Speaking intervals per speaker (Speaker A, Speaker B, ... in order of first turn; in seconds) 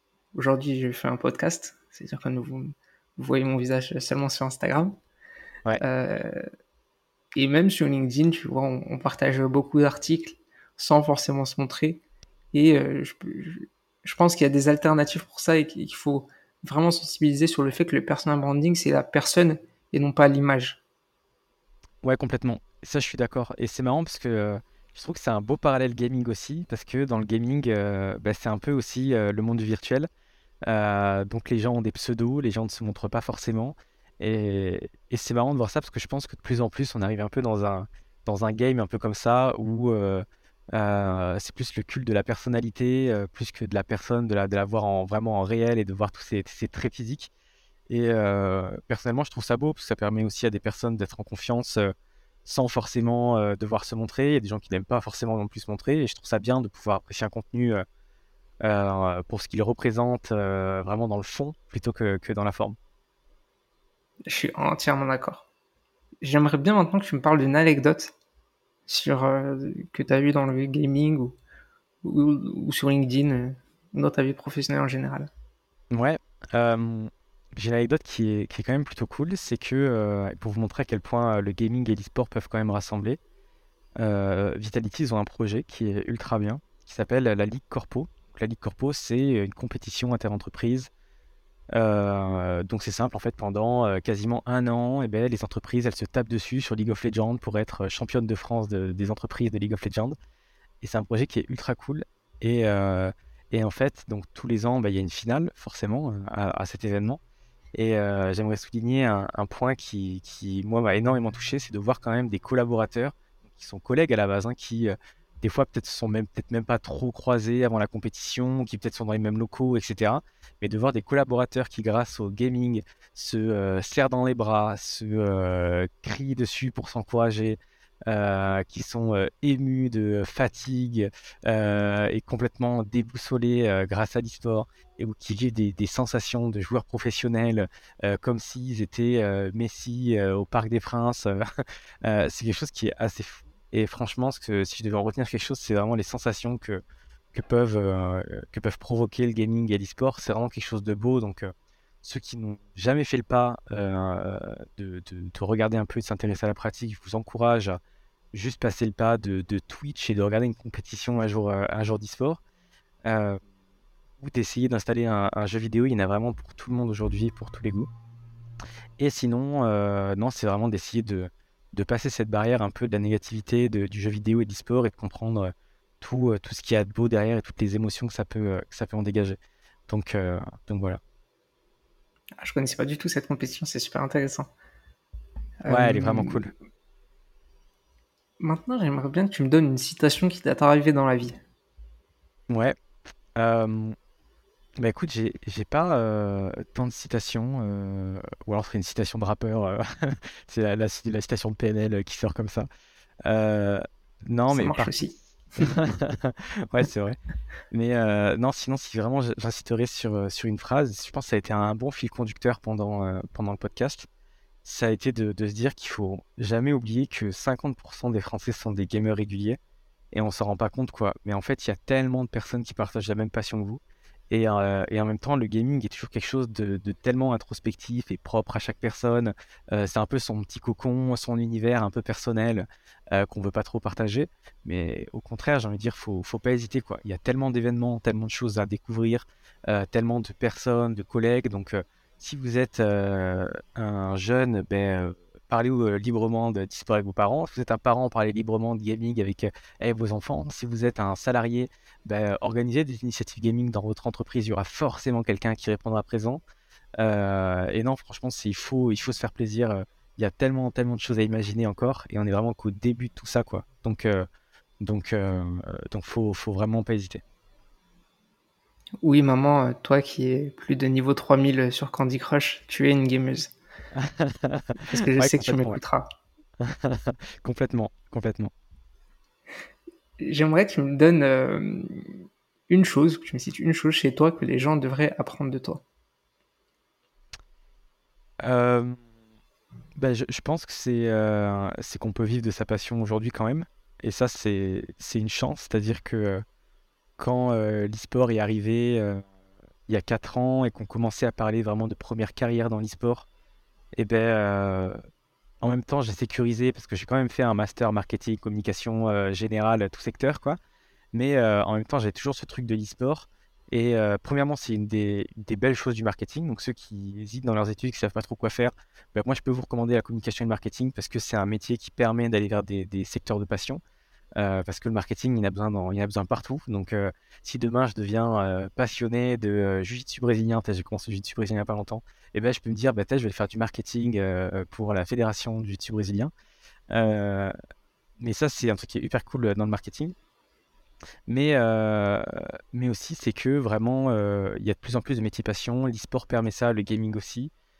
Speaker A: 0.3-5.0, 5.8-6.5, 7.3-20.8, 64.3-65.5, 66.2-68.1, 68.9-71.4, 72.0-75.3, 182.4-184.5, 185.6-186.5, 188.4-191.4, 204.5-205.7, 269.0-273.5, 274.9-276.1, 280.2-285.8
Speaker B: 22.0-30.1, 30.7-47.3, 47.9-51.9, 52.5-57.9, 58.6-62.8, 75.9-83.2, 84.0-90.9, 91.7-100.1, 100.8-107.2, 107.7-141.4, 142.0-146.8, 147.3-151.5, 152.0-157.8, 158.3-162.4, 163.1-163.4, 164.2-167.9, 169.0-181.0, 185.7-186.5, 192.5-192.7, 193.3-193.9, 194.8-202.7, 203.2-204.9, 205.6-207.2, 207.7-214.1, 214.6-219.6, 220.1-256.4, 257.0-264.3, 264.8-267.2, 273.9-275.8, 276.6-278.5, 288.4-289.0, 290.0-296.4, 297.2-299.2, 299.9-303.3, 303.9-304.9, 305.6-310.6, 311.1-323.8, 324.4-336.3, 336.9-337.5, 338.2-340.1, 341.3-347.5